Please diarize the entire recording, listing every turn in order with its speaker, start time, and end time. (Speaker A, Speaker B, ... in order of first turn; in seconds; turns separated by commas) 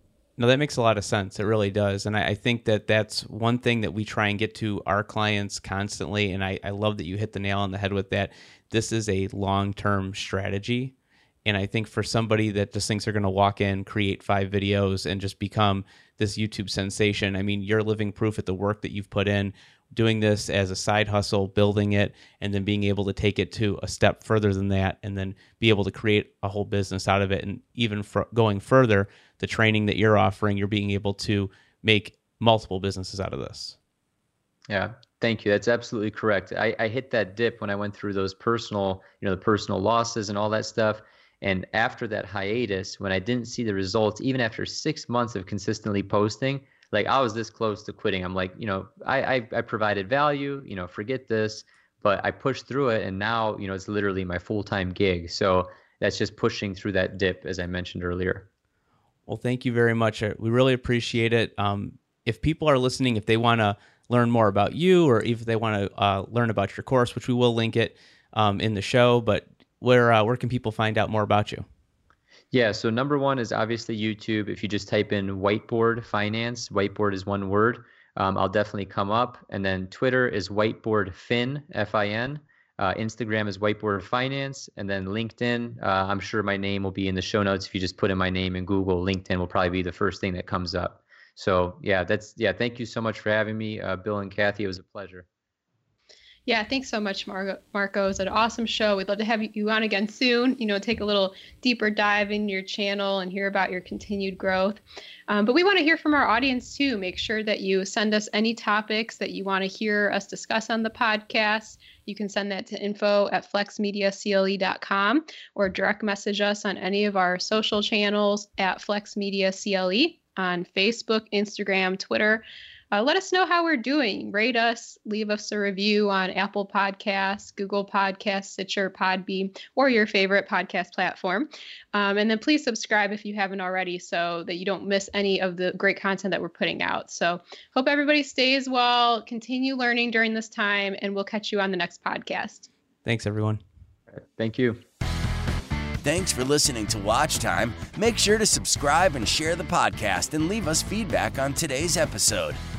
Speaker A: 0.4-10.9, Speaker A: 11.4-33.8, Speaker B: 34.7-58.5, Speaker A: 59.3-71.6, Speaker B: 72.5-95.2, Speaker C: 96.5-142.7, Speaker A: 143.0-143.6, Speaker B: 144.2-144.8, Speaker D: 146.0-152.6